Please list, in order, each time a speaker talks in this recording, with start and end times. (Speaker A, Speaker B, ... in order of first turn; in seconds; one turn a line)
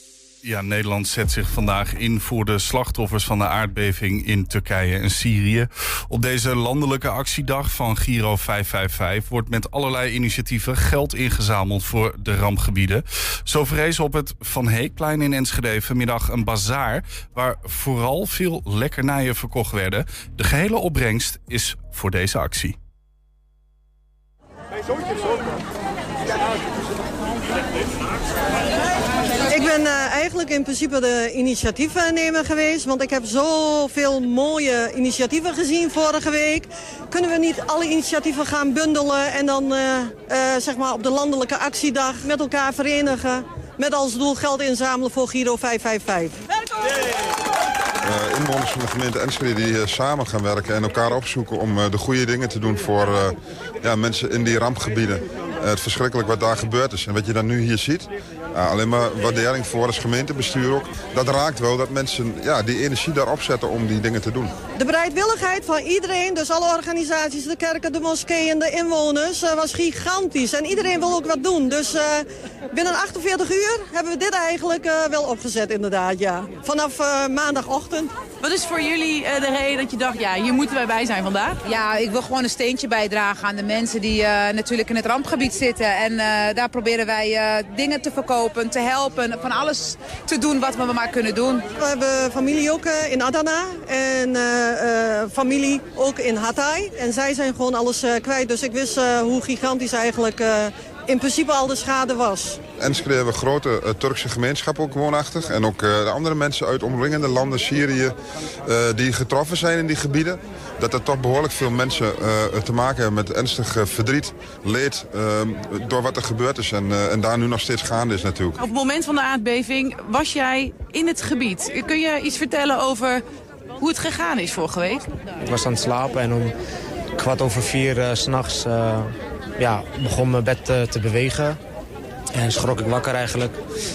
Speaker A: 0.4-22.8
Speaker B: 29.4-46.4
Speaker C: 48.0-64.5
Speaker B: 64.8-78.1
Speaker D: 78.4-81.6
Speaker E: 81.7-91.7
Speaker B: 91.8-102.6
Speaker C: 102.8-118.6
Speaker D: 118.6-123.2
Speaker D: 123.8-125.0
Speaker F: 125.4-126.5
Speaker F: 127.2-131.6
Speaker F: 132.3-133.6